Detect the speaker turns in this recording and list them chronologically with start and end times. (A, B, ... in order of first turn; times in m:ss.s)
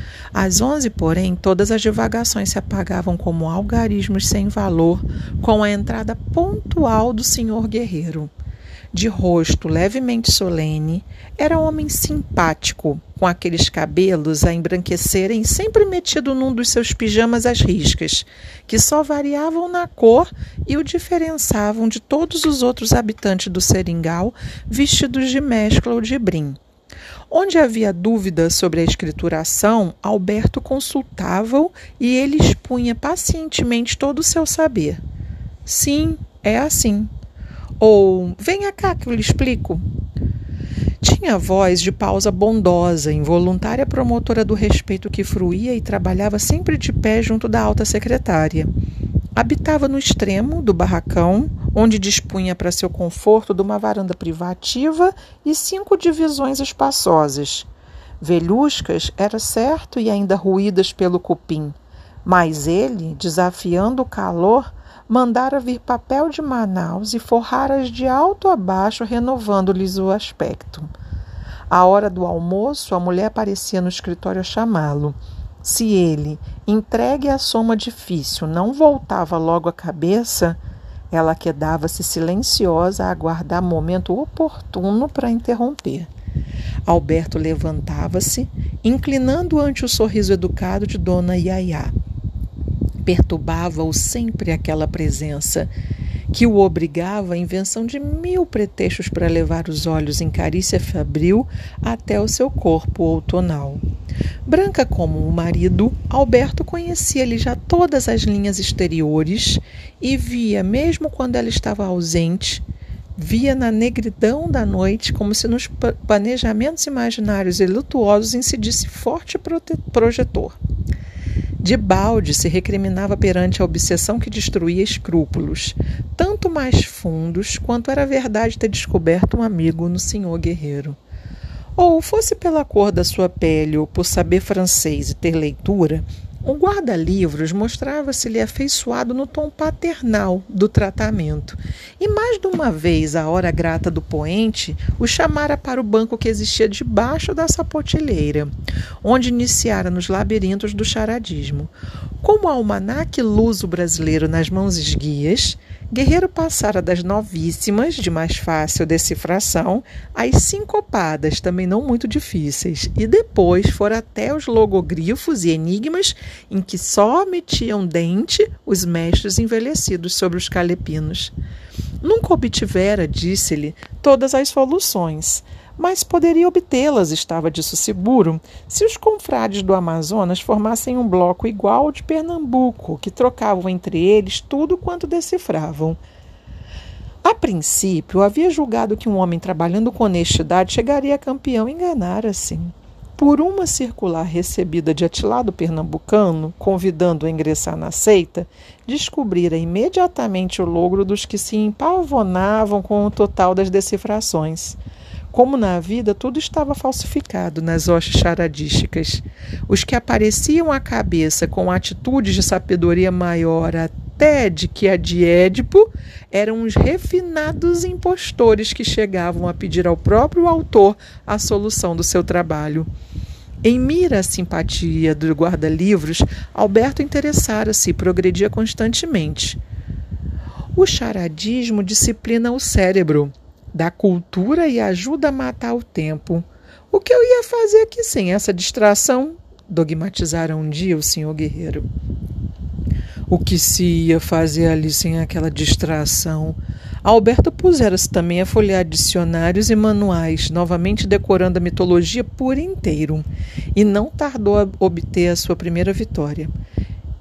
0:00.3-0:08.3 A
0:08.9-0:26.6 A
0:27.3-0:35.0 A
0:35.6-0:37.1 A
0:37.8-0:39.8 A
0:41.0-0:48.7 A
0:49.4-0:57.7 A
0:58.2-1:10.9 A
1:11.7-1:20.6 A
1:21.1-1:26.1 A
1:26.8-1:31.9 A
1:33.0-1:35.7 A
1:36.3-1:43.8 A
1:44.4-1:52.6 A
1:53.2-2:00.6 A
2:01.6-2:11.0 A
2:11.8-2:28.5 A
2:29.0-2:51.3 A
2:52.0-3:06.0 A
3:07.2-3:24.8 A
3:25.3-3:42.9 A
3:43.6-3:49.6 A
3:50.7-4:01.9 A
4:03.3-4:16.5 A